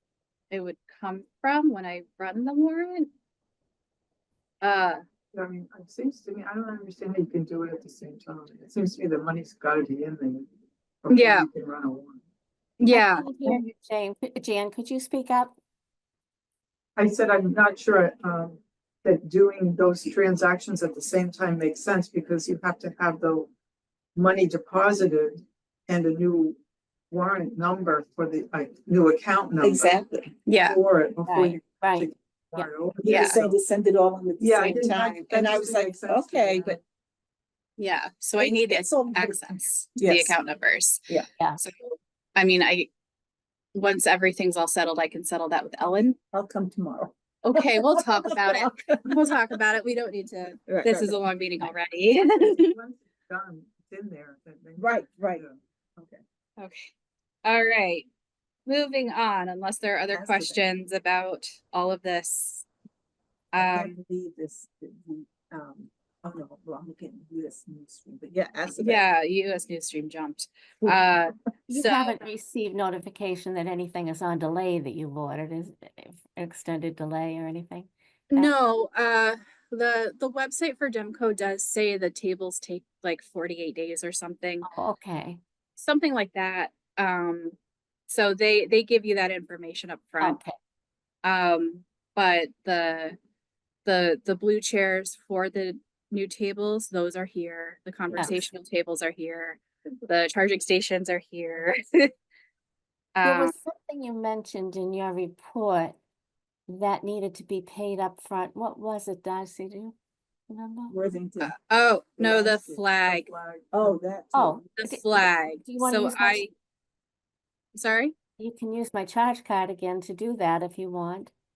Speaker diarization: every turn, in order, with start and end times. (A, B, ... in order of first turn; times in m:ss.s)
0:00.5-0:03.1 A
0:04.6-0:05.0 A
0:05.3-0:10.5 B
0:11.0-0:12.2 B
0:11.1-0:11.5 A
0:12.8-0:13.3 A
0:12.9-0:15.6 C
0:17.0-0:23.5 B
0:24.2-0:26.6 B
0:27.1-0:30.0 B
0:29.6-0:30.2 D
0:30.4-0:30.8 A
0:30.6-0:33.5 B
0:31.3-0:32.7 C
0:33.0-0:36.8 D
0:33.0-0:33.4 A
0:34.4-0:36.8 B
0:37.8-0:41.0 A
0:38.4-0:40.4 D
0:41.6-0:42.9 A
0:43.7-0:46.2 A
0:46.3-0:49.1 D
0:47.4-0:52.7 A
0:50.7-0:51.2 D
0:52.4-0:55.6 B
0:54.8-0:55.4 D
0:56.6-0:56.9 A
0:57.4-0:58.1 A
0:58.6-1:02.6 A
1:00.1-1:00.6 D
1:03.5-1:04.0 A
1:03.6-1:09.0 D
1:08.8-1:12.2 A
1:11.7-1:18.5 C
1:18.3-1:24.7 A
1:24.6-1:25.4 C
1:25.8-1:27.6 A
1:28.1-1:30.4 A
1:30.2-1:30.5 C
1:31.2-1:33.2 A
1:33.8-1:42.1 A
1:38.1-1:38.4 C
1:43.2-1:43.5 A
1:43.2-1:46.0 C
1:46.7-1:49.9 C
1:50.5-1:50.9 C
1:50.9-1:51.5 D
1:51.4-1:53.3 A
1:52.2-1:52.8 D
1:53.0-1:54.0 B
1:53.7-1:54.6 D
1:54.3-1:56.5 C
1:54.8-1:56.5 A
1:57.7-1:58.1 A
1:58.4-2:01.3 C